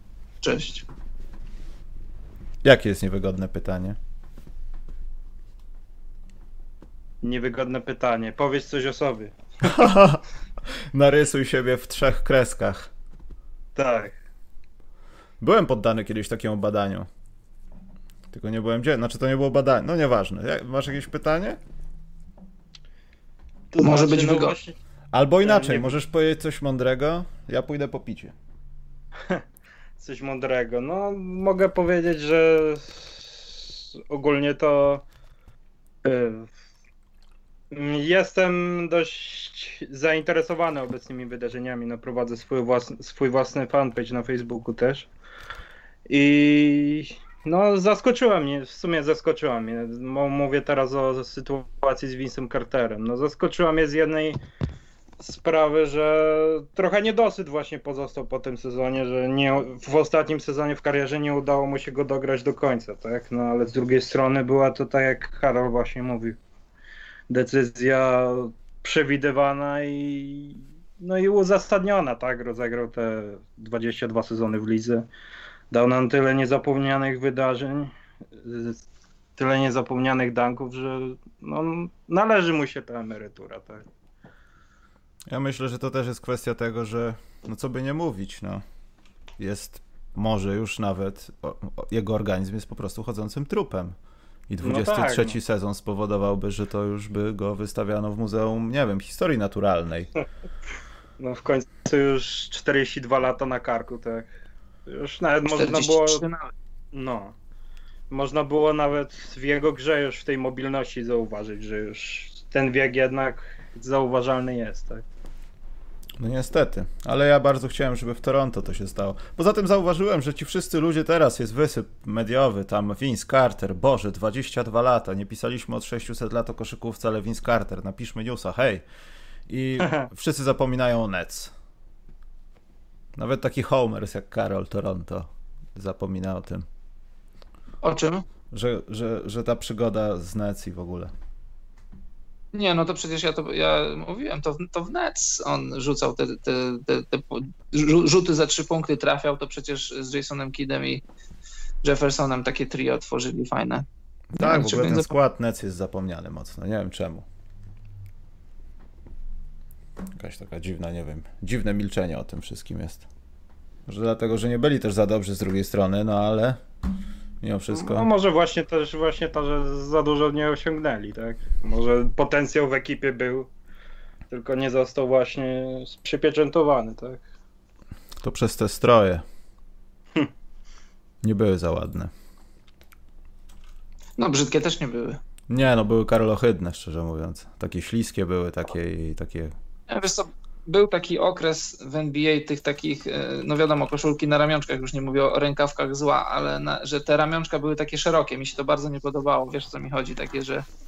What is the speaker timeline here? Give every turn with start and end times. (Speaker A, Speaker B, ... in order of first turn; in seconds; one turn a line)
Speaker A: 0.4-0.8
Speaker B: 2.6-4.0
Speaker C: 7.2-9.7
Speaker B: 9.6-10.2
Speaker B: 10.9-12.9
Speaker C: 13.8-14.1
Speaker B: 15.4-17.1
Speaker B: 18.3-21.6
Speaker C: 23.7-24.8
Speaker A: 23.8-24.6
Speaker B: 25.1-28.3
Speaker C: 25.4-25.9
Speaker C: 30.0-35.0
Speaker C: 36.0-36.5
Speaker C: 37.7-45.1
Speaker C: 46.1-54.4
Speaker C: 55.2-66.4
Speaker C: 67.3-75.1
Speaker C: 75.7-78.8
Speaker C: 79.4-83.9
Speaker B: 85.3-88.6
Speaker B: 89.4-93.9
Speaker B: 94.5-100.1
Speaker C: 94.6-95.3
Speaker C: 101.2-104.3
Speaker C: 104.8-106.2
Speaker A: 105.5-106.5
Speaker C: 106.9-107.3
Speaker C: 108.1-115.0
Speaker B: 116.2-128.8
Speaker B: 129.5-131.5
Speaker B: 133.2-136.7
Speaker A: 137.8-138.2
Speaker B: 138.5-141.1
Speaker A: 142.5-151.0
Speaker A: 151.8-155.1
Speaker B: 154.4-157.2
Speaker B: 160.2-163.1
Speaker B: 163.9-166.6
Speaker B: 167.4-168.1
Speaker C: 167.7-173.5
Speaker C: 174.3-177.2
Speaker B: 178.2-179.2
Speaker B: 181.2-182.1
Speaker A: 184.2-185.2
Speaker B: 185.5-189.5
Speaker A: 189.9-200.6